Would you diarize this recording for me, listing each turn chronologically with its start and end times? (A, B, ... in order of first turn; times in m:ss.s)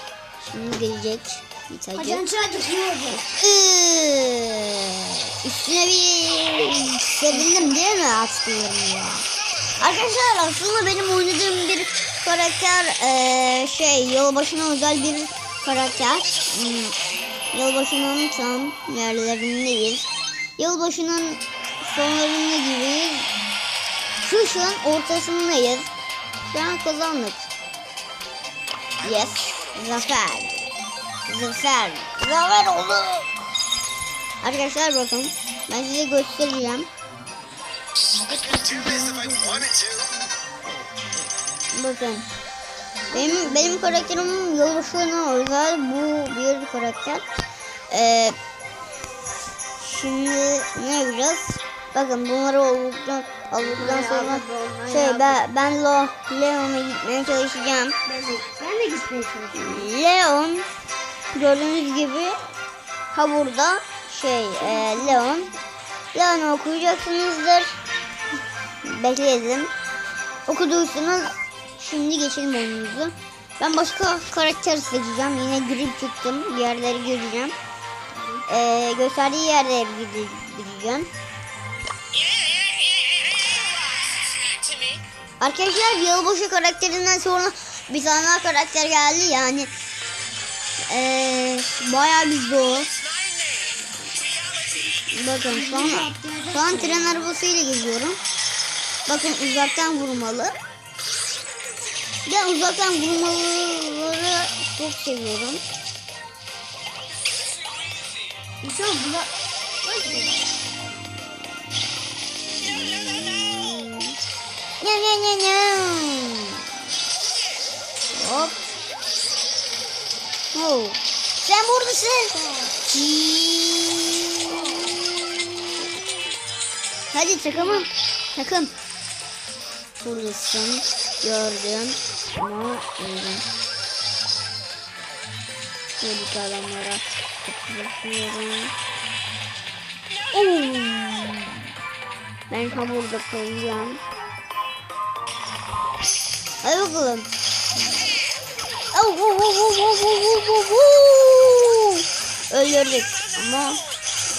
0:00.4-0:02.3 A
0:01.9-0:03.2 B
0:03.2-0:09.2 A
0:07.3-0:07.7 B
0:09.8-0:16.9 A
0:17.5-0:20.1 A
0:20.6-0:23.3 A
0:24.2-0:25.9 A
0:26.5-0:27.5 A
0:29.0-0:30.6 A
0:31.3-0:33.3 A
0:34.4-0:36.9 A
0:38.2-0:39.8 B
0:41.7-0:42.3 A
0:43.1-0:44.1 B
0:43.1-0:47.2 A
0:47.9-0:48.4 A
0:49.8-0:58.0 A
0:53.7-0:55.4 B
0:58.0-0:59.9 B
0:59.5-1:00.7 A
1:01.3-1:02.4 A
1:03.1-1:05.5 A
1:04.6-1:05.2 B
1:06.1-1:07.8 A
1:08.8-1:09.7 A
1:10.5-1:17.5 A
1:18.5-1:21.1 A
1:25.4-1:29.7 A
1:30.9-1:32.9 A
1:35.1-1:38.2 A
1:35.5-1:37.3 B
1:39.1-1:40.5 A
1:42.2-1:45.6 A
1:48.6-1:50.4 B
1:52.4-1:54.1 A
1:54.8-1:56.6 A
1:58.1-1:58.7 A
2:00.5-2:05.0 A
2:02.4-2:02.7 B
2:04.5-2:05.0 B
2:07.1-2:08.7 A
2:07.5-2:07.8 B
2:10.0-2:13.4 A
2:16.0-2:18.7 A
2:20.3-2:21.7 A
2:22.5-2:24.0 A
2:26.6-2:27.3 A
2:28.9-2:33.8 A